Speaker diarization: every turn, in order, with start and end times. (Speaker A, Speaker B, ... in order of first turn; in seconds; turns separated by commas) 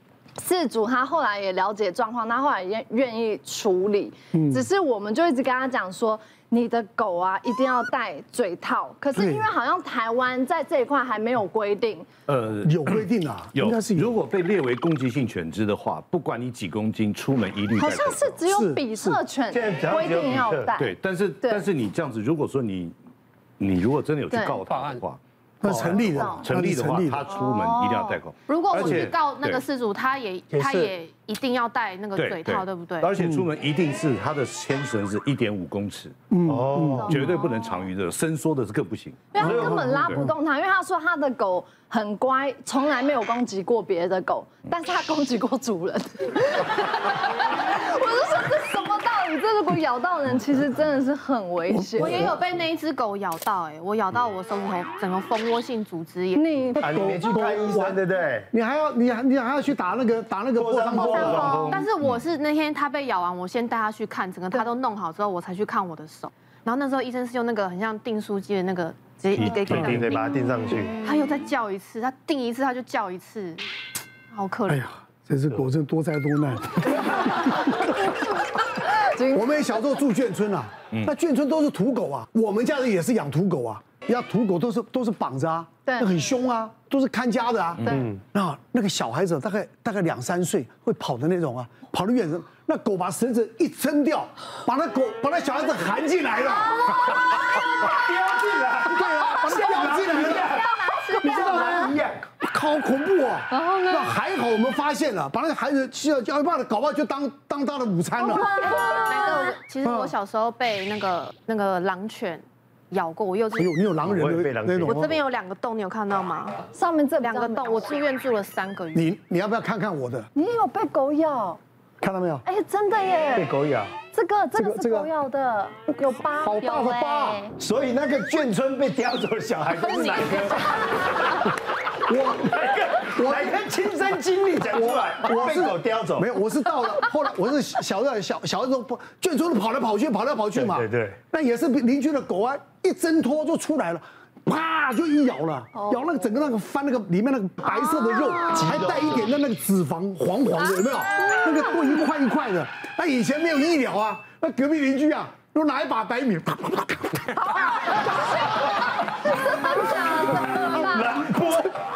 Speaker A: 0.4-12.1, Speaker B: 4.3-4.6, Speaker B: 9.1-9.4, Speaker C: 12.3-18.4, Speaker B: 12.6-14.1, Speaker A: 17.8-21.6, Speaker B: 18.4-19.2, Speaker D: 19.5-20.7, Speaker C: 20.7-22.9, Speaker C: 23.6-29.6, Speaker A: 24.3-24.6, Speaker B: 25.6-27.3, Speaker A: 26.2-26.4, Speaker A: 27.3-28.2, Speaker E: 28.5-33.1, Speaker D: 28.8-29.1, Speaker D: 30.5-30.9, Speaker C: 32.1-36.3, Speaker B: 36.3-37.1, Speaker D: 36.4-37.3, Speaker A: 37.0-37.8, Speaker C: 37.0-40.3, Speaker A: 39.3-52.3, Speaker D: 39.4-40.1, Speaker B: 39.6-40.0, Speaker B: 51.7-52.4, Speaker E: 52.0-56.4, Speaker A: 56.3-56.8, Speaker B: 56.7-61.6, Speaker D: 56.8-58.5, Speaker D: 60.5-61.9, Speaker A: 61.1-61.7, Speaker E: 61.2-70.3, Speaker C: 69.3-69.9, Speaker D: 69.5-71.1, Speaker B: 69.7-70.0, Speaker E: 71.0-73.6, Speaker E: 74.3-74.8, Speaker B: 74.7-77.9, Speaker A: 79.0-79.8, Speaker B: 79.3-96.8, Speaker A: 85.8-86.1, Speaker A: 96.7-97.1, Speaker D: 97.8-102.3, Speaker B: 98.8-100.6, Speaker A: 100.3-101.9, Speaker B: 101.2-108.6, Speaker A: 103.5-104.1, Speaker A: 108.2-109.6, Speaker E: 108.6-113.8, Speaker B: 109.8-110.1, Speaker B: 113.6-115.1, Speaker D: 114.0-115.2, Speaker E: 114.8-116.6, Speaker A: 116.7-117.9, Speaker E: 117.2-119.1, Speaker B: 118.9-120.3, Speaker A: 120.3-121.6, Speaker B: 122.0-122.4, Speaker A: 122.4-123.5, Speaker D: 123.3-123.9, Speaker A: 124.1-126.7, Speaker B: 124.5-125.1, Speaker B: 126.4-127.5, Speaker E: 126.7-127.3, Speaker D: 127.5-131.1, Speaker B: 132.1-157.5, Speaker D: 132.4-136.3, Speaker D: 140.5-141.2, Speaker A: 145.8-146.1, Speaker A: 148.1-148.6, Speaker D: 148.5-149.3, Speaker A: 157.4-161.2, Speaker D: 160.3-161.7, Speaker B: 160.6-161.6